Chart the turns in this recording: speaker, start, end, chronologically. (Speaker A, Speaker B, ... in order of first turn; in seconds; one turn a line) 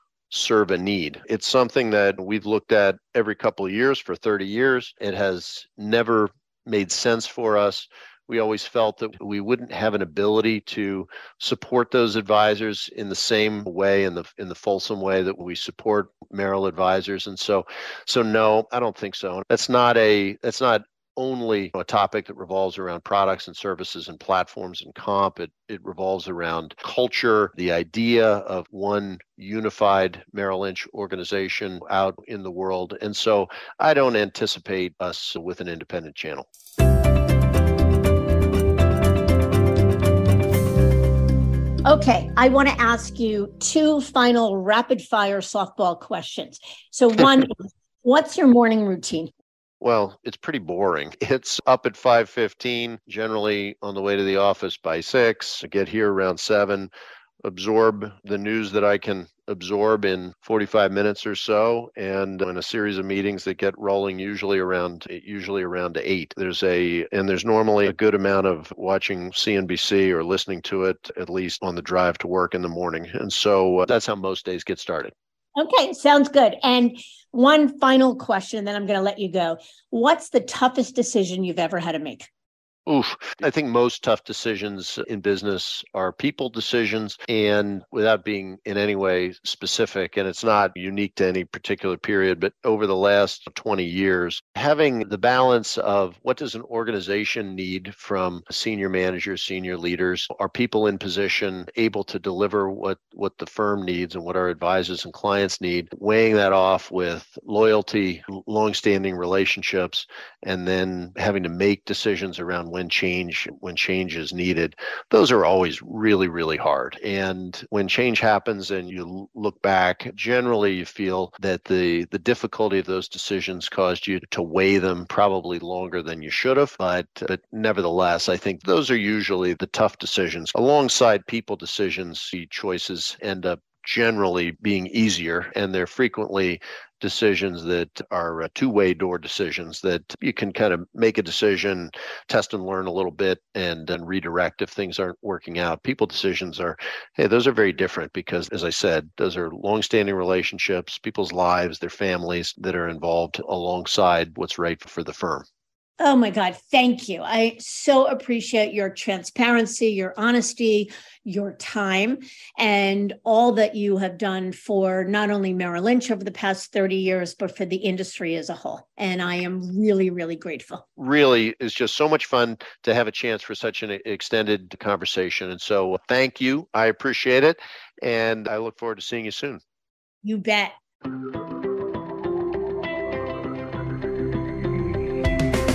Speaker A: 0.3-36.5
Speaker B: 41.9-49.3
Speaker A: 49.8-56.9
Speaker A: 57.4-75.1
Speaker B: 75.6-82.3
Speaker A: 82.9-155.5
Speaker B: 156.0-170.8
Speaker A: 171.0-179.6
Speaker B: 180.2-180.7